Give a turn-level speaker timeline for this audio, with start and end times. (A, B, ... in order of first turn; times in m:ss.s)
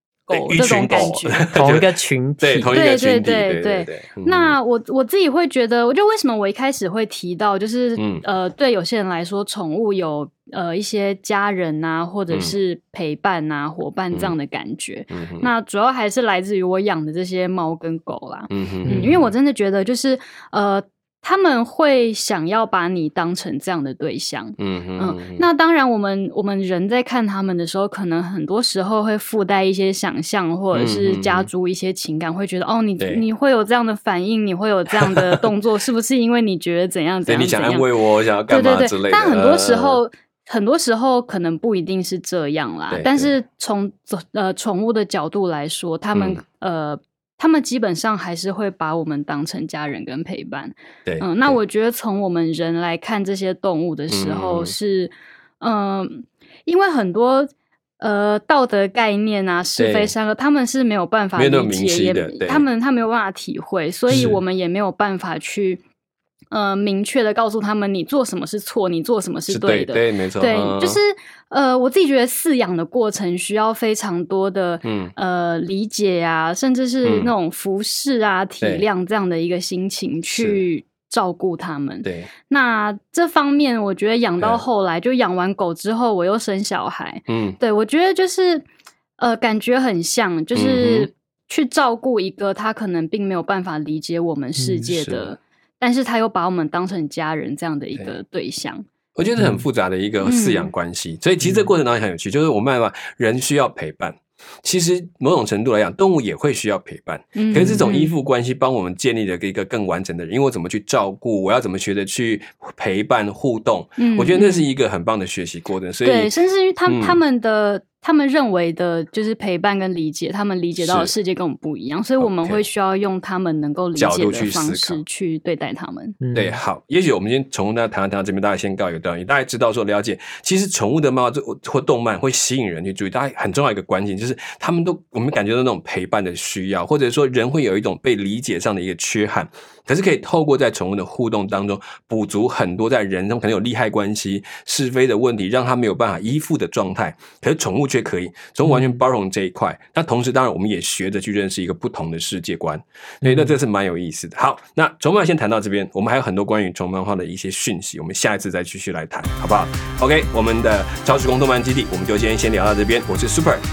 0:00.3-0:01.5 A
0:00.3-0:04.6 B
0:01.5-0:02.8 C
0:02.7-0:37.9 A
0:08.0-0:08.2 B
0:15.1-0:15.5 B
0:18.5-0:19.3 B
0:18.8-0:19.2 C
0:24.6-0:25.4 B
0:30.7-0:31.5 B
0:33.0-0:33.2 B
0:35.0-0:35.4 B
0:37.2-0:40.0 B
0:38.5-1:05.8 A
0:42.9-0:43.3 B
0:46.1-0:46.4 B
0:51.0-0:51.6 B
0:54.1-0:54.7 B
0:59.8-1:00.1 B
1:01.4-1:02.6 B
1:04.1-1:04.4 B
1:06.5-1:38.8 A
1:09.5-1:11.0 B
1:14.8-1:15.1 B
1:17.0-1:17.3 B
1:20.3-1:20.6 B
1:22.0-1:22.3 B
1:24.4-1:24.6 B
1:27.3-1:27.6 B
1:30.5-1:31.1 B
1:34.6-1:34.8 C
1:34.8-1:35.3 B
1:39.1-1:56.3 B
1:39.4-1:39.6 C
1:40.2-1:40.7 A
1:41.4-1:41.7 C
1:47.3-1:48.1 A
1:54.0-1:54.7 A
1:56.0-2:06.2 A
1:56.9-1:57.2 B
2:00.8-2:01.1 B
2:02.2-2:02.6 B
2:04.0-2:05.0 B
2:06.2-2:06.6 C
2:06.3-2:43.6 B
2:28.7-2:29.0 C
2:33.2-2:33.5 C